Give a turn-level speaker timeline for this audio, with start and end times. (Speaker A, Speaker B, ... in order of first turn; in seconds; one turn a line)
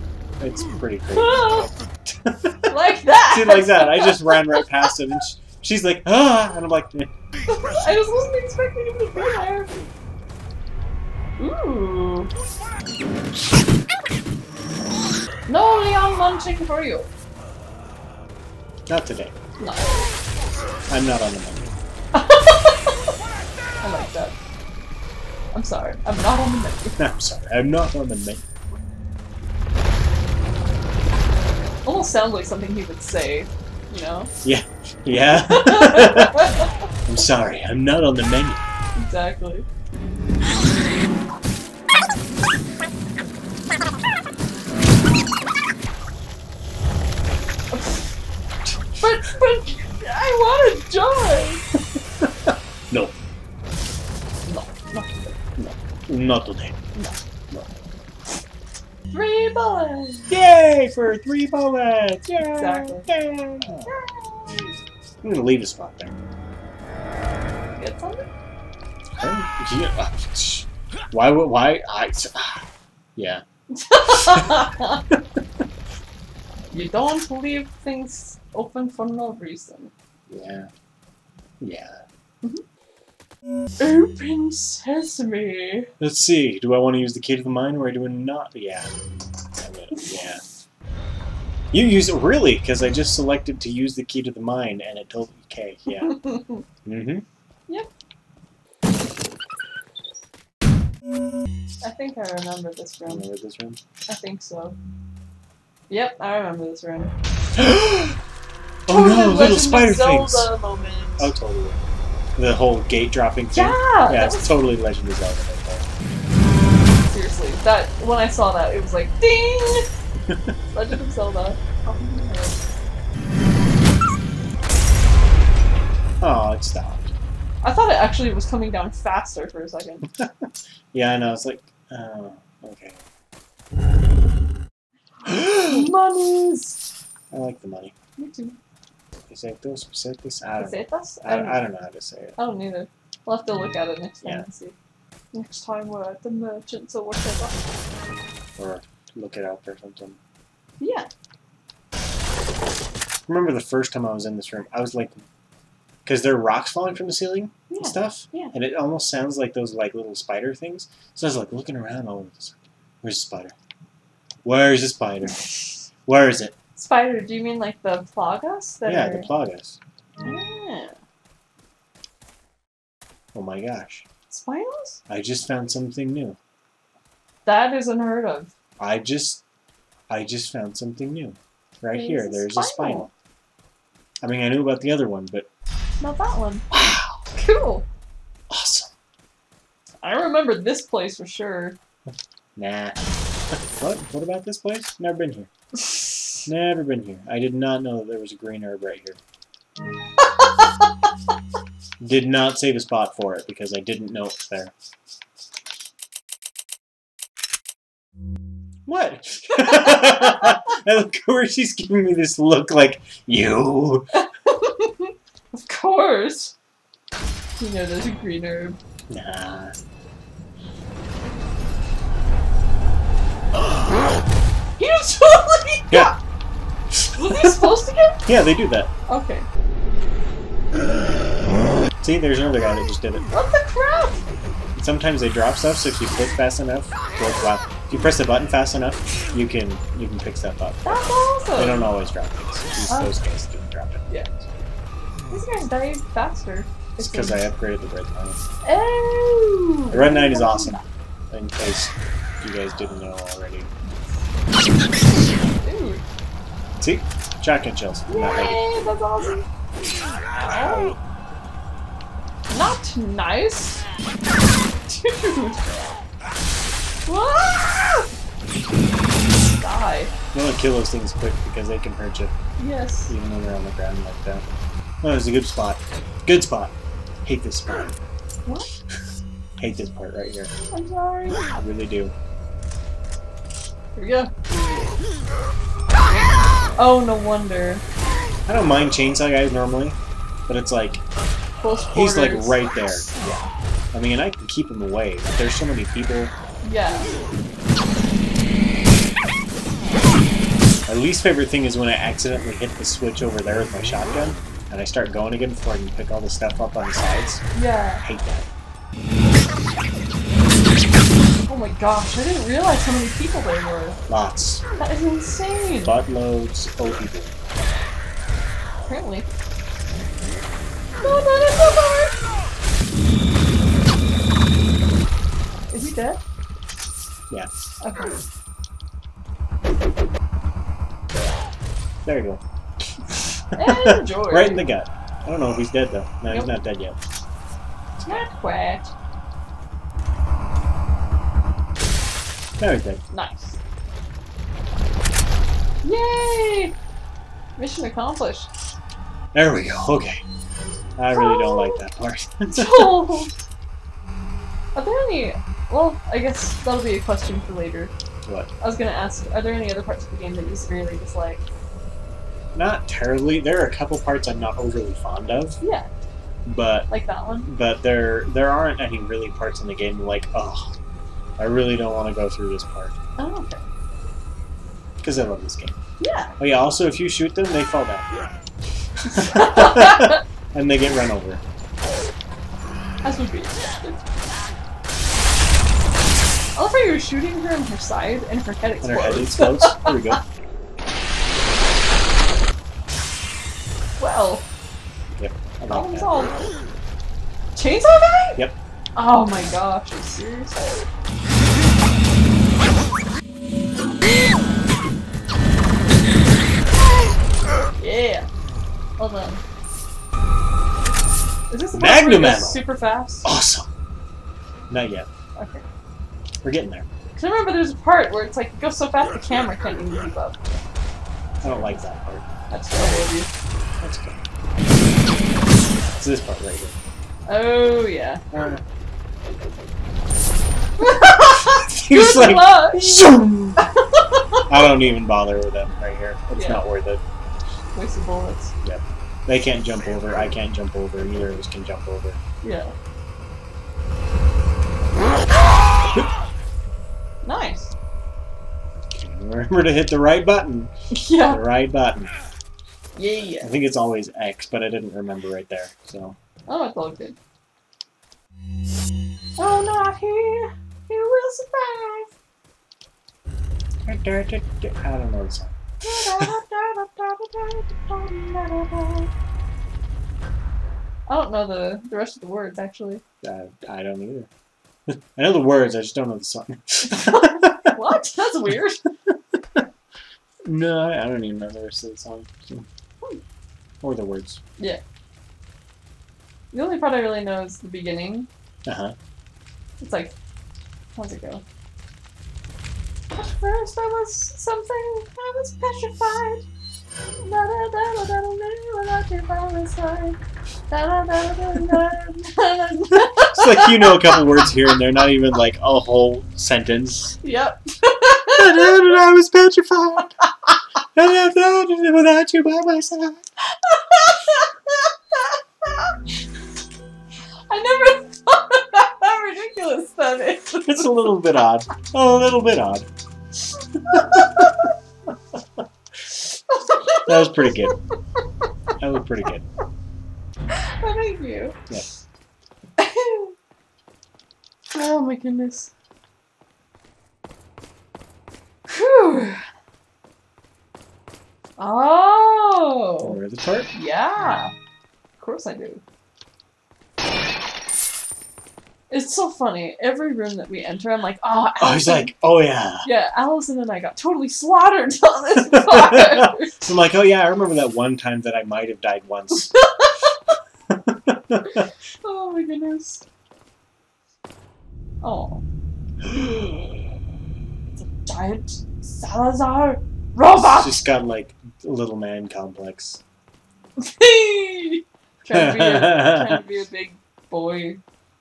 Speaker A: 0.4-2.8
Speaker B: 1.1-1.7
Speaker B: 2.7-4.9
Speaker A: 3.3-7.1
Speaker B: 7.5-9.9
Speaker B: 11.4-12.3
Speaker B: 15.5-17.1
Speaker A: 18.9-19.4
Speaker B: 19.6-20.1
Speaker A: 20.9-21.8
Speaker B: 22.1-22.8
Speaker B: 23.8-24.4
Speaker B: 25.5-27.0
Speaker A: 27.0-28.5
Speaker B: 31.8-34.3
Speaker A: 34.4-36.5
Speaker B: 35.3-36.7
Speaker A: 37.1-38.6
Speaker B: 39.0-39.7
Speaker B: 47.7-48.0
Speaker B: 49.0-51.6
Speaker A: 52.2-53.1
Speaker B: 54.5-55.4
Speaker A: 55.6-56.8
Speaker B: 59.1-60.4
Speaker A: 60.3-63.9
Speaker B: 62.5-63.1
Speaker B: 63.8-64.8
Speaker A: 65.2-66.2
Speaker B: 67.7-68.3
Speaker A: 69.2-73.4
Speaker B: 73.7-75.0
Speaker A: 74.2-74.5
Speaker B: 76.7-79.9
Speaker A: 80.3-80.7
Speaker A: 81.6-82.0
Speaker B: 83.8-85.9
Speaker A: 86.0-88.9
Speaker A: 89.6-90.4
Speaker A: 91.7-96.2
Speaker B: 95.9-96.6
Speaker A: 96.8-97.2
Speaker B: 101.8-103.2
Speaker A: 103.1-103.8
Speaker B: 104.1-104.8
Speaker B: 105.9-107.1
Speaker A: 107.5-108.2
Speaker A: 108.9-110.5
Speaker B: 108.9-111.3
Speaker A: 111.2-111.8
Speaker A: 112.4-115.9
Speaker B: 113.5-114.6
Speaker B: 117.1-119.9
Speaker B: 120.7-122.6
Speaker A: 126.2-127.1
Speaker B: 127.6-130.1
Speaker A: 130.1-133.0
Speaker B: 135.5-136.9
Speaker A: 137.3-137.9
Speaker B: 138.2-138.6
Speaker A: 139.3-142.4
Speaker B: 140.6-141.6
Speaker B: 142.4-144.8
Speaker B: 145.3-147.6
Speaker A: 148.6-150.2
Speaker B: 150.8-151.1
Speaker A: 153.3-155.2
Speaker A: 156.1-163.6
Speaker B: 157.7-158.5
Speaker A: 164.4-165.4
Speaker A: 166.1-166.6
Speaker B: 166.8-169.3
Speaker A: 168.8-169.8
Speaker B: 170.2-171.0
Speaker A: 173.3-174.1
Speaker B: 174.3-175.0
Speaker A: 175.1-176.4
Speaker B: 177.4-178.5
Speaker A: 178.8-179.4
Speaker A: 180.1-183.1
Speaker B: 181.9-183.1
Speaker A: 184.2-185.5
Speaker B: 186.0-186.7
Speaker A: 186.7-187.2
Speaker B: 187.3-187.9
Speaker A: 188.5-188.9
Speaker B: 190.0-191.8
Speaker A: 192.6-195.5
Speaker A: 196.4-199.2
Speaker A: 202.0-204.7
Speaker A: 208.9-214.1
Speaker B: 214.1-216.6
Speaker B: 217.6-218.8
Speaker A: 219.1-219.8
Speaker B: 224.8-226.2
Speaker A: 226.9-228.9
Speaker B: 227.2-228.2
Speaker B: 229.1-229.5
Speaker A: 232.0-233.3
Speaker B: 233.3-234.3
Speaker A: 234.8-244.1
Speaker B: 240.8-241.9
Speaker B: 242.9-243.2
Speaker B: 245.3-247.4
Speaker A: 247.0-248.4
Speaker B: 248.6-250.9
Speaker A: 249.9-253.7
Speaker B: 255.6-256.0
Speaker A: 256.8-258.6
Speaker B: 258.1-259.5
Speaker B: 260.4-260.9
Speaker A: 260.5-261.0
Speaker B: 262.5-263.8
Speaker B: 264.9-266.0
Speaker B: 267.1-268.1
Speaker B: 269.6-270.1
Speaker A: 270.3-272.3
Speaker B: 272.6-273.1
Speaker A: 273.1-278.0
Speaker B: 278.4-278.7
Speaker A: 279.6-280.5
Speaker B: 280.7-281.5
Speaker A: 281.5-282.1
Speaker B: 283.9-284.3
Speaker B: 286.8-287.8
Speaker A: 288.5-291.0
Speaker B: 291.6-293.4
Speaker A: 291.9-296.3
Speaker B: 296.6-297.2
Speaker A: 300.9-307.4
Speaker B: 307.5-308.0
Speaker A: 308.0-308.5
Speaker B: 311.5-314.0
Speaker A: 314.1-314.7
Speaker B: 314.8-316.0
Speaker A: 315.8-317.4
Speaker B: 318.9-319.3
Speaker B: 321.0-322.1
Speaker B: 325.7-326.2
Speaker B: 327.8-328.2
Speaker A: 332.1-332.4
Speaker A: 333.5-337.0
Speaker B: 333.6-334.7
Speaker B: 336.3-336.5
Speaker A: 338.0-338.3
Speaker B: 338.1-338.9
Speaker A: 342.6-343.0
Speaker B: 343.1-343.6
Speaker B: 345.8-346.7
Speaker B: 347.6-348.5
Speaker A: 349.3-350.2
Speaker A: 351.0-353.3
Speaker B: 351.1-351.8
Speaker B: 352.5-353.3
Speaker B: 354.8-357.9
Speaker A: 358.2-358.5
Speaker B: 358.6-361.4
Speaker A: 362.5-365.6
Speaker B: 365.6-365.9
Speaker A: 366.4-366.9
Speaker B: 366.9-367.5
Speaker A: 367.4-370.8
Speaker A: 371.4-372.9
Speaker B: 373.2-373.6
Speaker A: 375.0-375.8
Speaker B: 376.0-376.3
Speaker A: 376.4-378.3
Speaker A: 379.0-381.4
Speaker B: 379.1-380.2
Speaker B: 383.0-384.0
Speaker B: 386.6-390.2
Speaker A: 388.8-390.2
Speaker B: 394.0-394.5
Speaker A: 395.2-396.2
Speaker B: 395.7-396.5
Speaker B: 397.6-398.4
Speaker B: 399.0-400.9
Speaker B: 407.8-408.3
Speaker B: 409.0-409.4
Speaker B: 411.5-413.3
Speaker A: 411.7-412.6
Speaker A: 413.2-413.7
Speaker A: 414.7-415.1
Speaker B: 415.4-415.6
Speaker A: 416.4-416.9
Speaker B: 417.2-420.6
Speaker A: 421.4-422.3
Speaker B: 422.5-423.3
Speaker A: 423.8-424.2
Speaker A: 426.0-426.8
Speaker B: 427.3-428.2
Speaker A: 428.3-428.6
Speaker B: 430.8-433.1
Speaker A: 431.2-433.6
Speaker B: 433.9-434.4
Speaker A: 434.5-437.0
Speaker B: 436.3-436.6
Speaker B: 437.7-438.5
Speaker A: 438.6-442.2
Speaker B: 442.4-442.7
Speaker B: 447.2-447.7
Speaker A: 448.9-452.1
Speaker B: 450.9-451.4
Speaker B: 453.0-453.5
Speaker A: 453.4-456.2
Speaker B: 456.5-457.2
Speaker B: 459.4-462.1
Speaker A: 463.9-465.6
Speaker B: 465.8-469.1
Speaker B: 471.1-473.0
Speaker A: 473.2-474.3
Speaker A: 474.9-477.8
Speaker B: 476.9-478.9
Speaker A: 479.1-479.6
Speaker A: 480.4-482.7
Speaker A: 483.8-484.4
Speaker B: 486.5-488.3
Speaker A: 488.6-489.0
Speaker B: 489.8-490.1
Speaker B: 491.0-491.4
Speaker B: 493.1-496.4
Speaker B: 497.2-500.2
Speaker B: 500.7-504.5
Speaker A: 502.9-507.2
Speaker B: 507.2-509.0
Speaker A: 508.3-510.1
Speaker A: 510.9-513.2
Speaker B: 513.5-516.0
Speaker B: 517.5-521.1
Speaker A: 520.6-522.9
Speaker B: 523.9-524.2
Speaker A: 523.9-524.7
Speaker B: 526.5-527.8
Speaker A: 527.1-527.8
Speaker A: 528.8-529.5
Speaker B: 530.8-531.6
Speaker B: 532.8-533.3
Speaker B: 534.7-535.7
Speaker B: 538.7-539.5
Speaker B: 541.6-543.1
Speaker A: 543.0-543.7
Speaker B: 543.7-544.5
Speaker B: 545.2-545.8
Speaker B: 548.9-552.1
Speaker A: 551.6-552.9
Speaker B: 552.8-556.6
Speaker A: 555.4-559.5
Speaker B: 559.5-560.4
Speaker A: 560.7-561.6
Speaker B: 561.6-563.0
Speaker B: 565.0-565.4
Speaker A: 566.1-566.8
Speaker B: 566.2-566.5
Speaker B: 567.7-570.8
Speaker A: 570.4-573.0
Speaker B: 573.8-577.8
Speaker A: 575.3-576.4